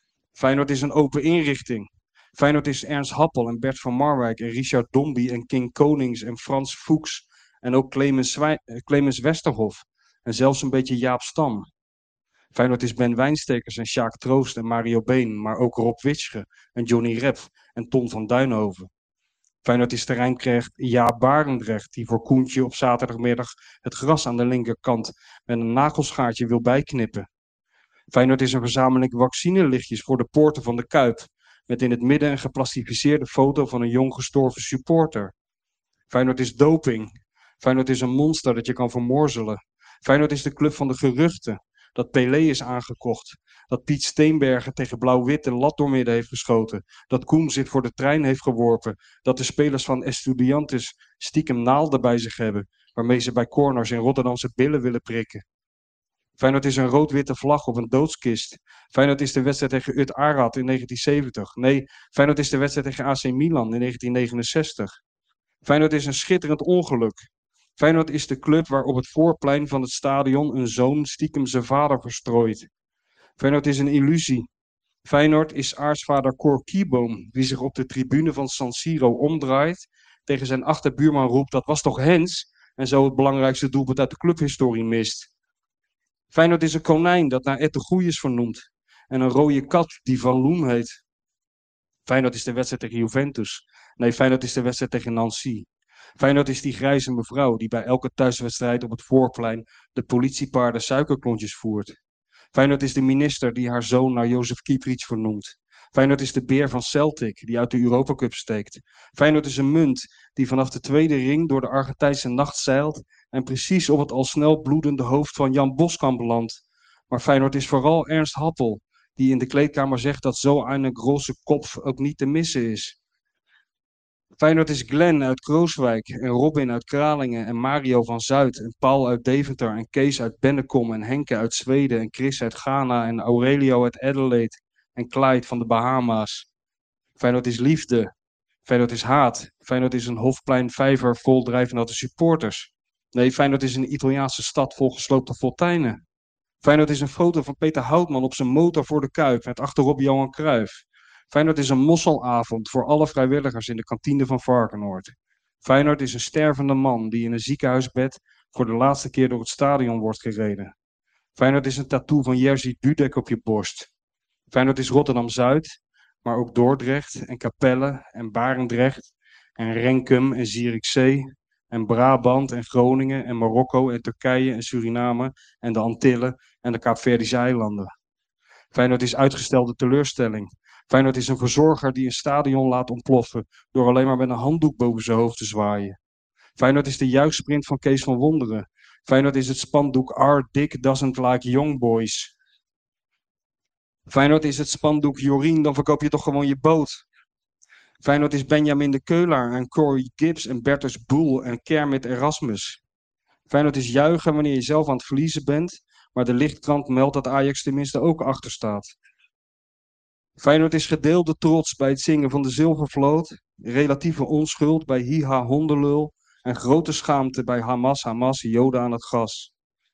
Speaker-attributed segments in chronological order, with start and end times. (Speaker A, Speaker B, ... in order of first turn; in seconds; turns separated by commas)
Speaker A: 0.3-11.7, Speaker A: 12.5-18.9, Speaker A: 19.6-27.3, Speaker A: 28.1-35.3, Speaker A: 36.1-55.4, Speaker A: 56.4-64.9, Speaker A: 65.6-67.2, Speaker A: 67.8-72.7, Speaker A: 73.4-74.5, Speaker A: 75.0-85.3, Speaker A: 86.3-91.0, Speaker A: 92.1-95.7, Speaker A: 96.2-102.0, Speaker A: 102.5-123.0, Speaker A: 124.4-136.5, Speaker A: 137.2-138.1, Speaker A: 138.6-146.0, Speaker A: 146.6-160.7, Speaker A: 161.4-163.9, Speaker A: 164.5-177.9, Speaker A: 178.7-186.0, Speaker A: 186.6-192.3, Speaker A: 194.1-197.0, Speaker A: 198.0-202.8, Speaker A: 203.5-208.9, Speaker A: 210.4-219.5